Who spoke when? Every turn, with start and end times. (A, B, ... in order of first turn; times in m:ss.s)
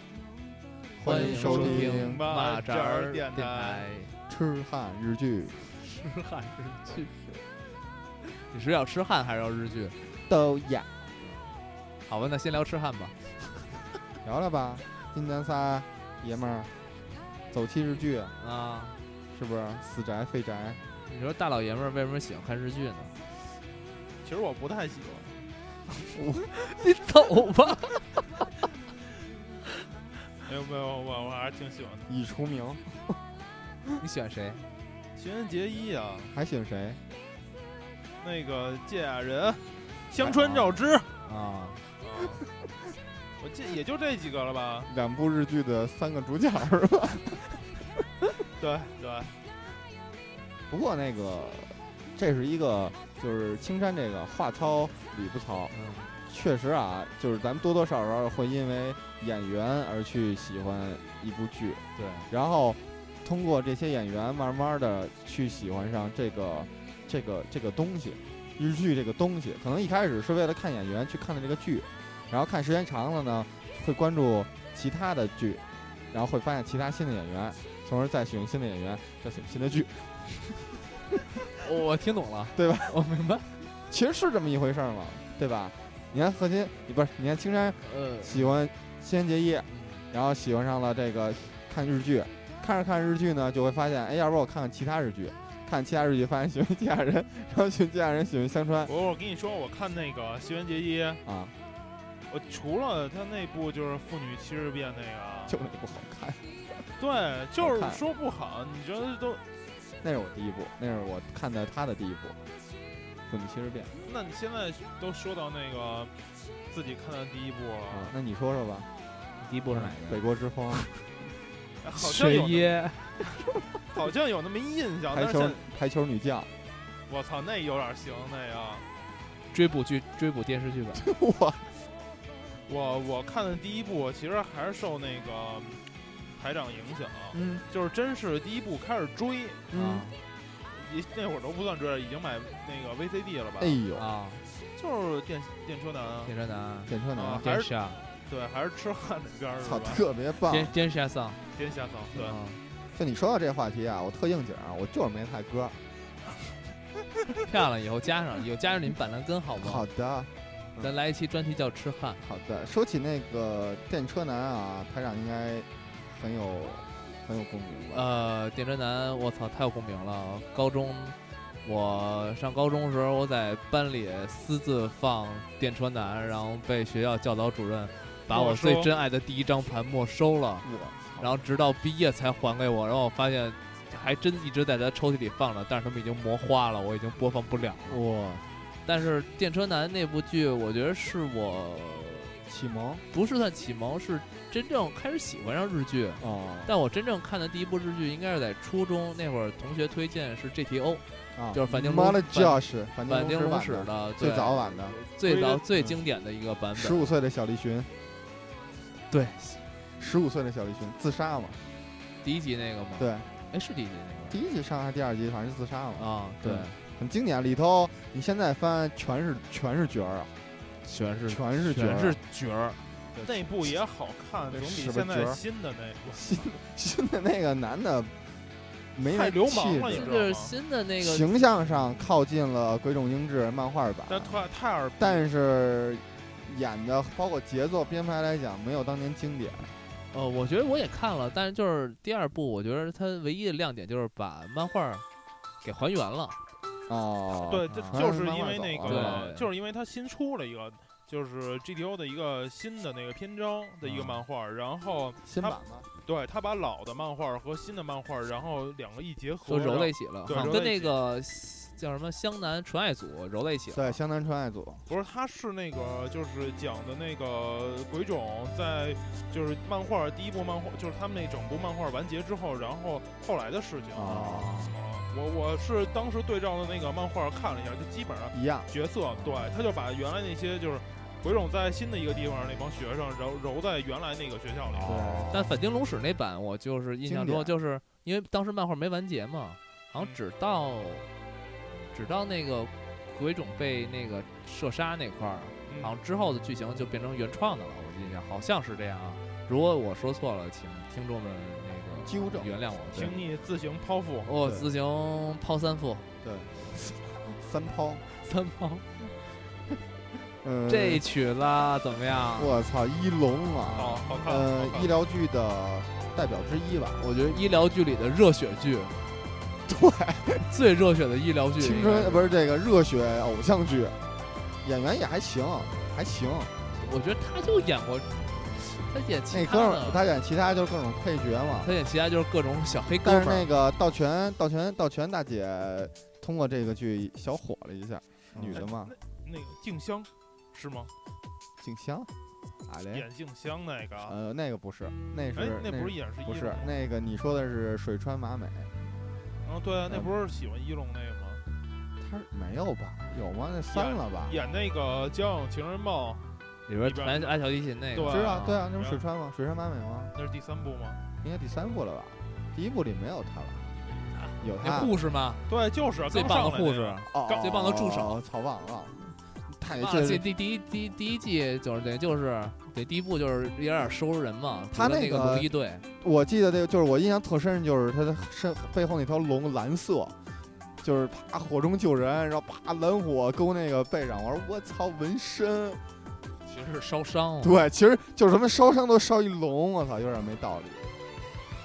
0:01.0-0:02.3 A
0:01.0-0:04.2 B
0:01.2-0:03.9 C
0:04.3-0:05.6 A
0:05.8-0:07.2 B
0:08.4-0:10.0 B
0:10.3-0:10.9 A
0:11.2-0:11.5 B
0:12.1-0:13.6 B
0:14.2-0:16.7 A
0:17.5-0:18.4 A
0:18.4-0:19.0 B
0:19.3-0:20.8 A
0:21.1-0:23.2 B
0:24.2-0:25.4 C
0:26.1-0:26.5 A
0:26.6-0:28.0 B
0:30.4-0:32.1 C
0:32.1-0:33.2 A
0:34.0-0:34.6 B
0:35.2-0:36.3 C
0:36.3-0:37.0 A
0:38.2-0:41.1 C
0:40.2-0:40.8 A
0:41.2-0:41.8 B
0:42.0-0:42.4 C
0:43.4-0:44.9 C
0:44.9-0:47.4 A
0:48.6-0:49.3 C
0:50.7-0:55.7 A
0:55.7-0:56.2 B
0:56.3-1:20.8 A
1:02.0-1:02.3 B
1:21.6-1:23.5 B
1:22.5-1:23.0 A
1:23.9-1:38.9 A
1:27.8-1:28.6 B
1:29.7-1:30.1 B
1:38.9-1:41.2 C
1:41.2-1:41.6 A
1:42.3-1:45.6 C
1:45.5-1:46.8 A
1:47.0-1:49.4 C
1:47.6-1:48.0 A
1:50.0-1:52.4 A
1:53.3-1:53.9 A
1:54.0-1:56.1 C
1:56.7-1:58.2 C
1:57.9-1:58.9 A
1:59.4-2:00.2 B
1:59.7-2:00.9 A
2:01.8-2:02.8 C
2:02.0-2:03.5 B
2:03.9-2:05.6 C
2:05.1-2:06.5 A
2:07.1-2:08.9 C
2:09.5-2:11.0 B
2:11.0-2:11.7 A
2:12.7-2:15.8 C
2:16.4-2:19.6 C
2:17.3-2:17.6 A
2:19.7-2:20.1 A
2:19.7-2:20.2 B
2:20.7-2:23.8 C
2:23.6-2:24.1 A
2:24.0-2:24.4 B
2:24.8-2:26.3 C
2:26.3-2:28.0 B
2:26.9-2:27.5 A
2:27.2-2:27.7 C
2:28.3-2:30.0 C
2:29.6-2:30.7 A
2:30.5-2:31.4 B
2:31.5-2:32.4 C
2:32.2-2:32.6 B
2:32.9-2:35.8 A
2:37.4-2:39.9 B
2:39.6-2:40.9 A
2:40.8-2:42.2 B
2:42.2-2:48.1 A
2:47.9-3:00.7 B
2:58.3-2:58.9 C
3:00.6-3:01.4 A
3:01.2-3:08.0 B
3:07.9-3:08.5 A
3:08.8-3:12.4 B
3:12.5-3:13.0 A
3:13.1-3:27.1 B
3:16.2-3:16.7 A
3:21.4-3:25.0 A
3:25.0-3:25.6 C
3:26.8-3:27.9 A
3:29.1-3:29.7 B
3:30.0-3:31.6 A
3:32.2-3:34.4 B
3:33.0-3:33.3 A
3:34.3-3:40.3 A
3:36.0-3:36.8 B
3:40.8-3:42.8 B
3:41.3-3:42.2 A
3:43.1-3:43.5 A
3:43.2-3:46.2 C
3:44.5-3:45.4 A
3:46.1-3:48.1 A
3:49.0-3:50.1 A
3:49.1-3:50.5 C
3:49.9-3:51.3 B
3:51.0-3:54.4 A
3:54.1-3:55.2 C
3:55.0-3:59.7 A
4:00.1-4:05.1 B
4:05.6-4:06.4 B
4:06.9-4:09.3 A
4:07.5-4:20.9 C
4:07.7-4:08.0 B
4:08.9-4:09.5 B
4:13.9-4:14.2 A
4:15.2-4:15.9 A
4:19.5-4:24.0 B
4:20.3-4:20.6 A
4:23.7-4:24.8 A
4:24.9-4:44.9 C
4:34.0-4:34.6 A
4:34.0-4:34.8 B
4:38.3-4:38.7 A
4:44.7-4:45.6 A
4:44.9-4:51.1 B
4:47.0-4:47.5 A
4:51.9-5:03.2 B
4:55.7-4:55.9 C
5:02.0-5:02.5 A
5:02.9-5:04.3 C
5:04.3-5:06.1 B
5:04.4-5:04.7 A
5:06.2-5:08.0 A
5:08.2-5:08.9 B
5:10.4-5:11.0 A
5:10.7-5:12.6 B
5:12.4-5:17.0 A
5:13.7-5:15.0 C
5:17.0-5:19.0 B
5:19.7-5:20.5 A
5:20.5-5:22.3 B
5:21.6-5:24.0 A
5:24.6-5:26.5 A
5:26.8-5:30.0 B
5:29.3-5:31.7 A
5:31.6-5:33.5 B
5:33.0-5:38.9 A
5:38.3-5:38.6 B
5:38.5-5:40.9 C
5:41.6-5:42.1 A
5:42.7-5:43.1 A
5:42.9-5:44.2 C
5:44.1-5:48.7 A
5:45.4-5:46.7 C
5:49.4-5:51.4 C
5:49.9-5:50.1 A
5:52.0-5:54.4 A
5:53.7-5:56.2 C
5:56.7-5:58.6 B
5:56.8-5:57.4 C
5:57.9-5:59.0 C
5:58.1-6:00.1 A
6:00.2-6:01.0 C
6:01.2-6:03.7 A
6:04.2-6:05.5 B
6:04.4-6:04.9 A
6:05.5-6:07.4 C
6:06.1-6:08.2 B
6:07.1-6:10.2 A
6:09.7-6:15.9 B
6:14.7-6:15.5 A
6:16.0-6:20.2 A
6:20.8-6:25.8 A
6:26.4-6:27.6 B
6:27.4-6:30.8 A